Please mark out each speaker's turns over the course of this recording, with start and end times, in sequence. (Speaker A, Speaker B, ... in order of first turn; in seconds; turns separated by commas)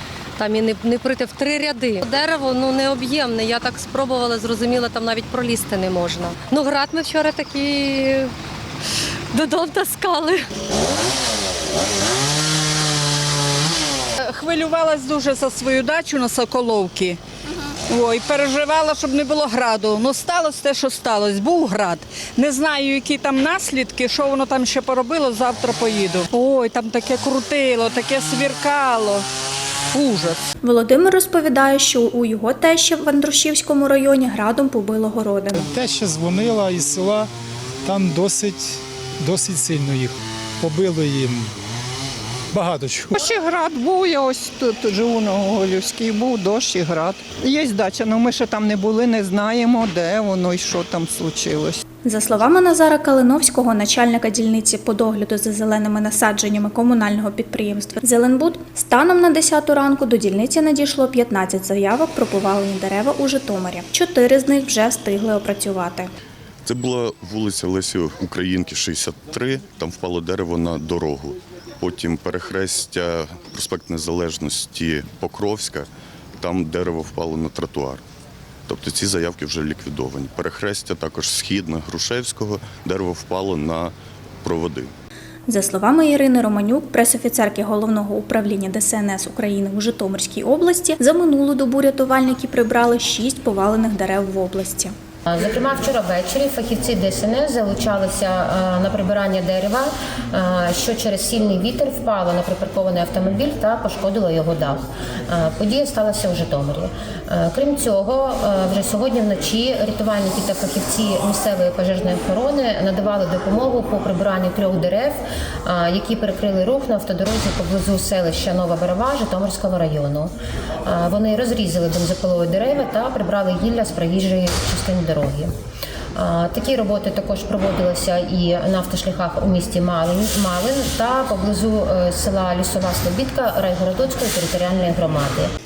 Speaker A: 0.4-8.3, Speaker A: 9.3-10.4, Speaker B: 14.2-17.2, Speaker B: 17.9-29.2, Speaker B: 29.9-30.4, Speaker C: 30.6-35.7, Speaker D: 35.7-37.3, Speaker D: 37.8-41.5, Speaker D: 42.5-43.2, Speaker E: 43.2-51.8, Speaker C: 52.0-66.1, Speaker F: 66.7-78.0, Speaker F: 78.7-84.9, Speaker C: 85.5-94.9, Speaker G: 95.3-125.5, Speaker G: 126.1-135.5